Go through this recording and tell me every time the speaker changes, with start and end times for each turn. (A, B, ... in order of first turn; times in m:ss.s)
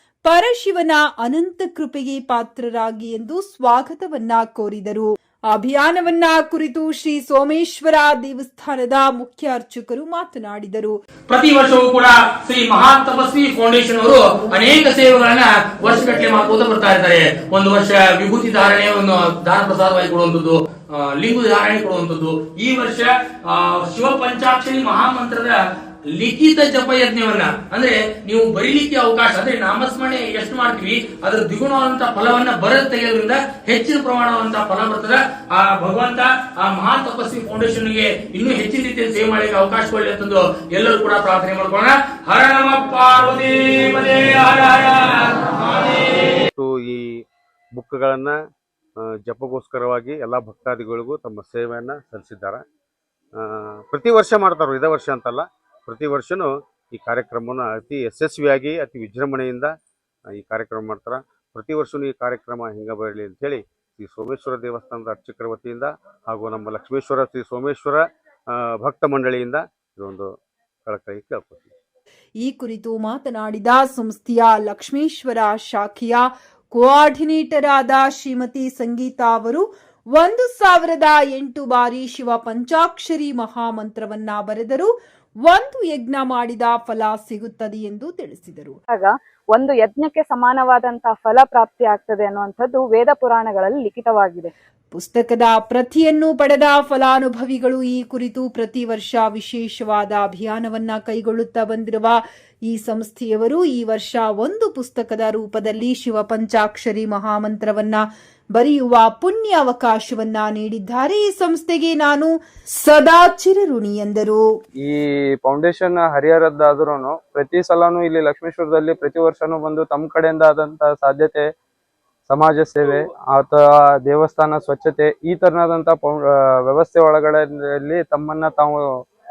0:00.2-0:11.0 A
0:11.3-0:25.6 B
0:26.1-0:46.3 B
0:46.5-0:47.2 C
0:47.7-0:48.4 C
0:49.0-0:52.6 C
0:53.4-0:59.7 C
1:00.3-1:10.3 C
1:10.8-1:11.7 C
1:12.4-1:24.9 A
1:25.4-1:28.8 A
1:28.9-1:34.5 D
1:34.9-1:54.4 A
1:54.8-2:01.5 E
2:02.3-2:09.0 E